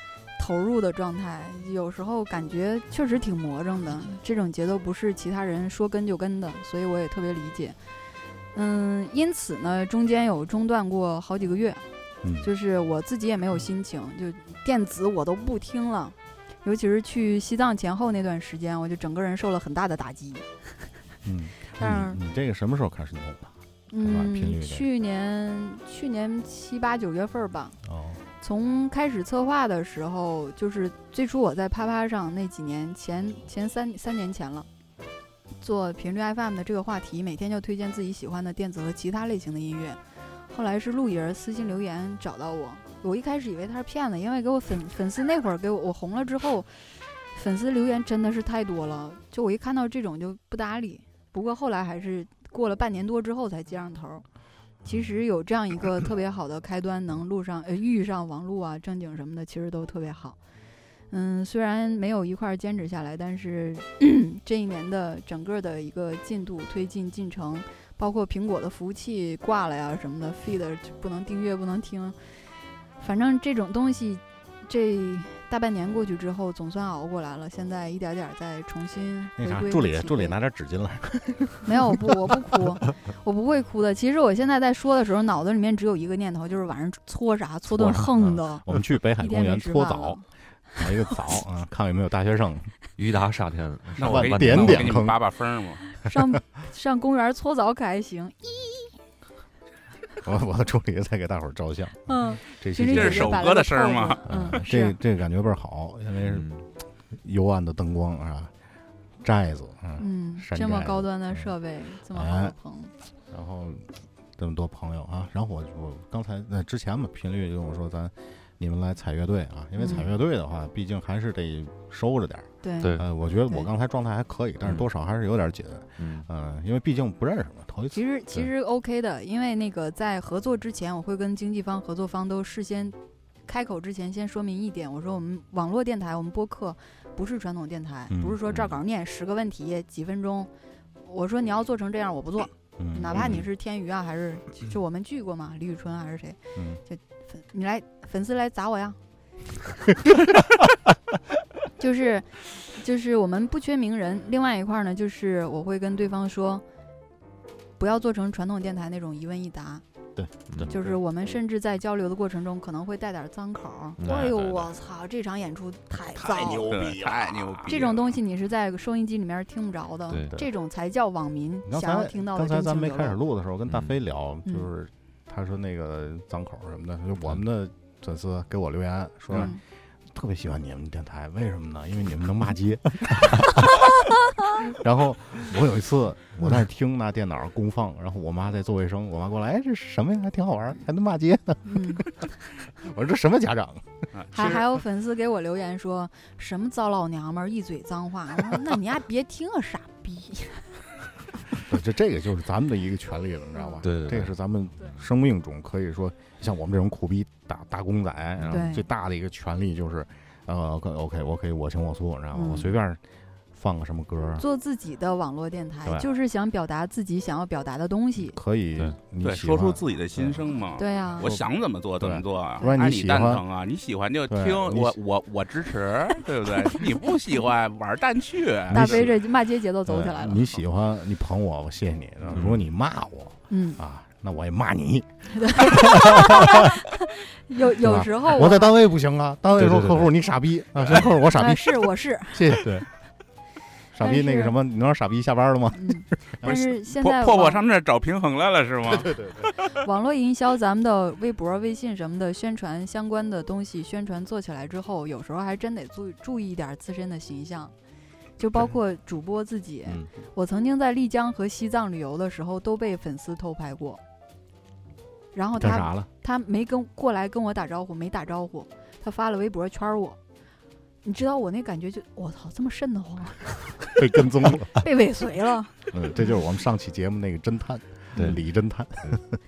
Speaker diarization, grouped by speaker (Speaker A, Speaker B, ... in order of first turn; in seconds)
Speaker A: 0.4-7.8, 8.5-11.8, 12.4-20.5, 21.7-22.2, 23.9-27.8, 28.4-34.7, 35.6-40.0, 40.5-46.7, 47.3-54.2, 54.8-60.4, 61.1-72.2, 73.0-80.3, 81.6-88.7, 89.2-90.2, 96.0-98.9, 102.0-105.0, 110.0-112.9, 119.8-120.1, 122.6-123.0, 127.9-132.9, 133.5-140.5, 141.0-149.0, 151.8-156.6, 157.8-159.8, 160.7-166.7, 167.7-173.2, 179.3-179.6, 191.6-192.1, 194.3-200.8, 203.5-203.8, 208.5-208.8, 212.3-212.8, 214.4-218.4, 220.8-221.3, 228.7-230.4, 233.5-233.8, 235.3-238.7, 241.3-242.6, 244.0-244.5, 245.7-247.6, 249.8-257.7, 258.4-264.0, 265.3-270.2, 271.0-274.0, 274.7-275.8
Speaker B: 12.2-12.5, 21.2-24.9, 27.8-28.2, 79.3-82.4, 87.7-90.2, 90.8-92.7, 94.0-95.2, 100.2-103.5, 104.2-106.5, 107.1-108.5, 109.2-111.5, 112.1-112.5, 113.3-128.5, 138.1-138.4, 142.8-143.5, 146.6-146.8, 160.2-160.7, 166.1-167.9, 171.6-193.8, 201.5-213.0, 213.5-214.4, 218.2-220.4, 222.0-223.4, 224.3-224.9, 228.7-229.1, 229.8-236.7, 237.7-242.9, 243.9-246.5, 248.9-249.5, 259.9-260.1, 265.6-266.1, 273.9-274.8, 275.9-279.4
Speaker C: 93.0-95.0, 106.2-106.6, 122.8-123.0, 126.0-126.3, 164.0-164.7, 170.1-170.3, 173.7-173.9, 203.8-204.3, 208.4-208.7, 232.3-232.6, 239.5-240.1
Speaker D: 94.0-95.8, 102.9-104.3, 166.6-168.1, 194.1-194.6, 219.2-229.1, 246.4-249.7